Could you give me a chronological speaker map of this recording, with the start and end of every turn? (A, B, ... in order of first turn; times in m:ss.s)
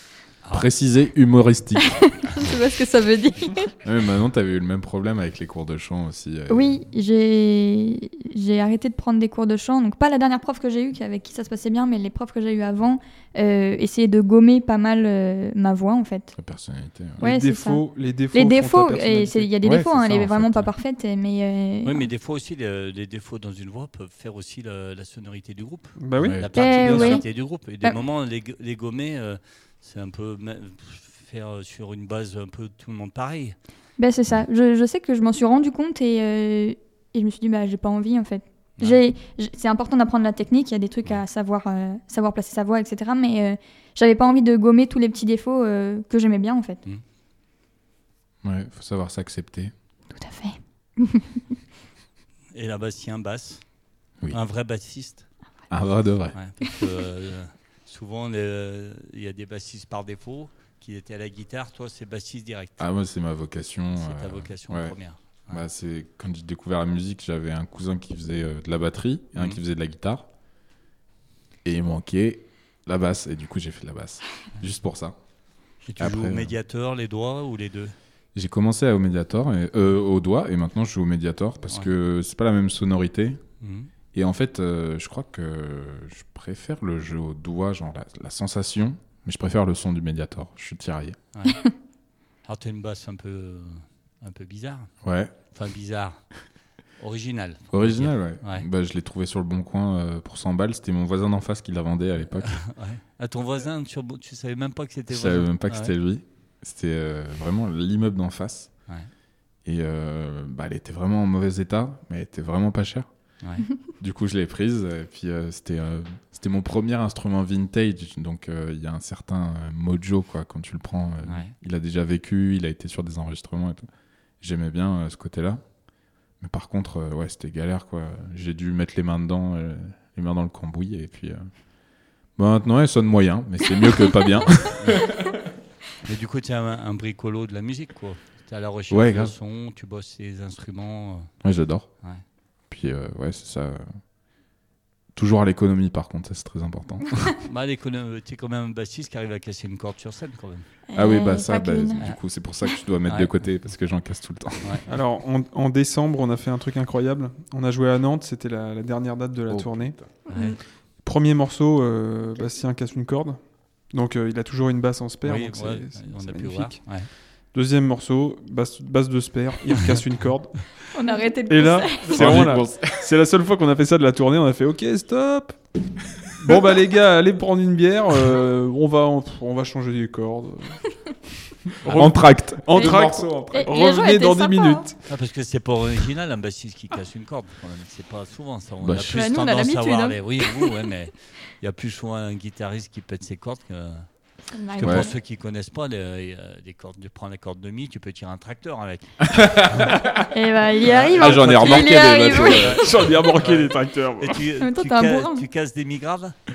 0:00.4-0:00.7 A
0:00.5-0:02.4 B
0:02.2-0:03.7 C
0:03.8-0:06.8 B
0:06.5-0:16.3 C
0:16.4-0:17.2 B
0:17.2-0:19.5 D
0:17.2-0:22.1 C
0:19.6-0:20.7 B
0:21.8-0:33.6 A
0:26.0-0:27.2 D
0:26.2-0:26.6 B
0:26.6-0:27.2 C
0:34.0-0:46.8 C
0:48.4-0:49.7 B
0:50.1-0:51.3 C
0:52.5-0:53.6 A
0:54.3-0:55.3 A
0:55.7-0:56.4 B
0:56.3-1:02.9 A
1:02.8-1:05.0 B
1:04.0-1:05.6 A
1:05.5-1:10.3 B
1:09.4-1:09.6 A
1:11.6-1:15.2 B
1:15.8-1:18.0 A
1:16.0-1:16.5 B
1:18.4-1:23.4 B
1:23.6-1:23.9 A
1:24.1-1:31.2 B
1:31.3-1:31.6 A
1:32.4-1:34.9 A
1:35.0-1:35.3 B
1:35.5-1:36.3 A
1:37.0-1:38.7 A
1:37.7-1:42.6 B
1:42.3-1:46.0 A
1:45.1-1:48.7 B
1:49.6-1:53.1 B
1:54.0-2:03.9 B
2:01.2-2:01.5 A
2:04.4-2:05.6 B
2:06.4-2:11.5 B
2:12.4-2:15.3 B
2:14.7-2:15.1 A
2:16.0-2:21.3 A
2:18.9-2:19.3 B
2:21.4-2:21.9 B
2:22.7-2:24.0 B
2:25.2-2:27.4 B
2:27.4-2:30.7 A
2:30.9-2:32.0 C
2:30.9-2:34.8 B
2:33.1-2:33.3 A
2:34.9-2:40.0 D
2:39.5-2:40.1 B
2:40.3-2:40.6 A
2:40.3-2:40.6 C
2:41.0-2:47.0 D
2:45.2-2:47.1 A
2:47.5-2:50.9 D
2:50.9-2:52.4 C
2:51.5-2:55.6 D
2:52.1-2:53.1 B
2:56.3-3:00.8 D
3:01.7-3:05.0 D
3:01.8-3:03.6 B
3:02.7-3:04.9 C
3:05.1-3:14.1 A
3:08.8-3:09.3 B
3:09.1-3:10.7 C
3:14.5-3:15.1 C
3:14.7-3:19.9 A
3:14.8-3:15.1 B
3:19.3-3:20.2 B
3:20.3-3:22.8 C
3:20.8-3:26.4 A
3:21.1-3:23.1 B
3:22.6-3:24.4 D
3:24.6-3:25.4 C